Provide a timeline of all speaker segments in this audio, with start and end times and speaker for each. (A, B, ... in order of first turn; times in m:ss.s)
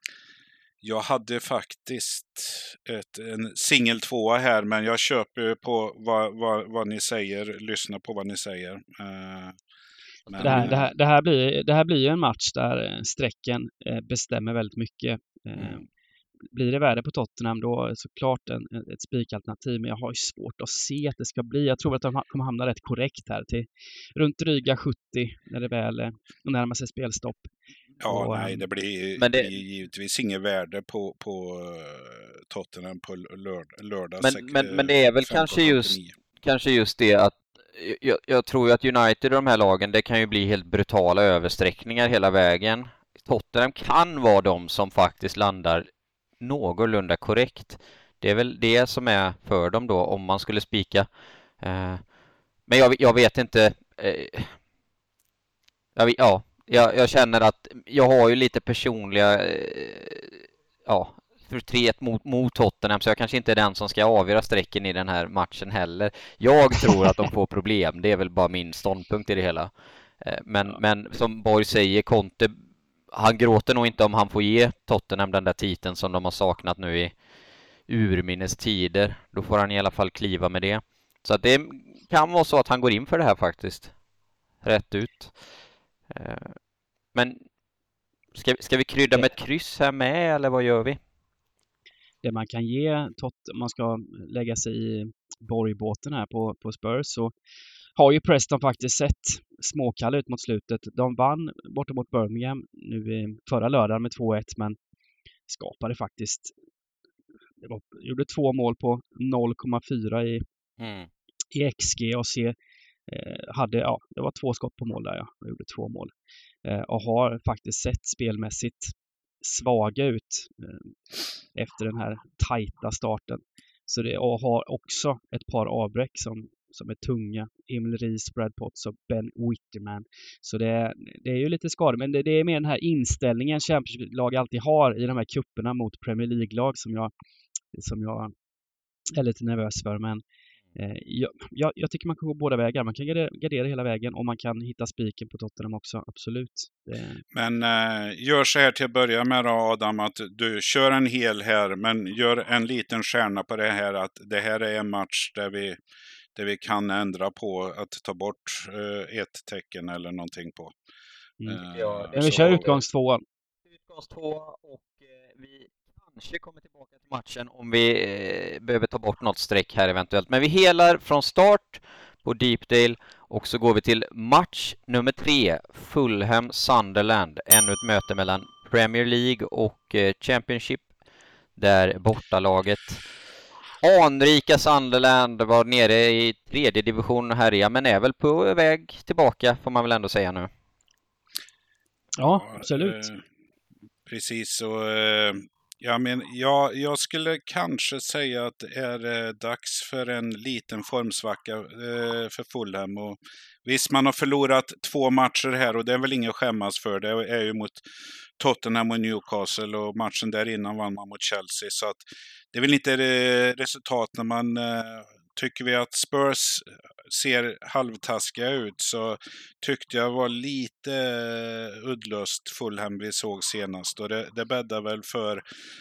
0:00.8-0:09.6 A
0:10.3-0:10.9 A
0:10.4-0:10.7 B
0:10.4-0:15.8 C
0:16.5-0:27.5 C
0:28.0-0:36.1 A
0:28.0-0:28.7 C
0:29.2-0:29.5 B
0:34.2-0:45.8 B
0:46.4-0:51.1 B
0:51.6-0:52.0 B
0:52.7-0:54.6 B
0:56.0-1:12.6 B
1:13.1-1:17.1 B
1:17.9-1:23.9 B
1:24.6-1:25.4 B
1:26.1-1:26.6 B
1:27.1-1:27.4 B
1:28.3-1:31.0 B
1:32.2-1:37.3 C
1:38.0-1:44.8 C
1:45.5-1:46.5 C
1:47.6-1:50.4 C
1:50.8-1:51.1 B
1:51.5-1:52.6 C
1:53.1-1:56.1 C
1:56.6-2:00.9 C
2:01.5-2:17.1 C
2:17.7-2:18.3 C
2:19.2-2:20.2 C
2:20.8-2:27.2 C
2:27.3-2:35.8 A
2:36.4-2:40.8 A
2:41.5-2:42.7 A
2:41.7-2:42.8 B
2:42.2-2:43.2 C
2:43.7-3:00.9 B
3:01.6-3:03.0 B
3:03.8-3:10.5 B
3:12.2-3:13.0 C
3:12.3-3:13.2 A
3:14.1-3:27.8 A
3:28.4-3:45.4 A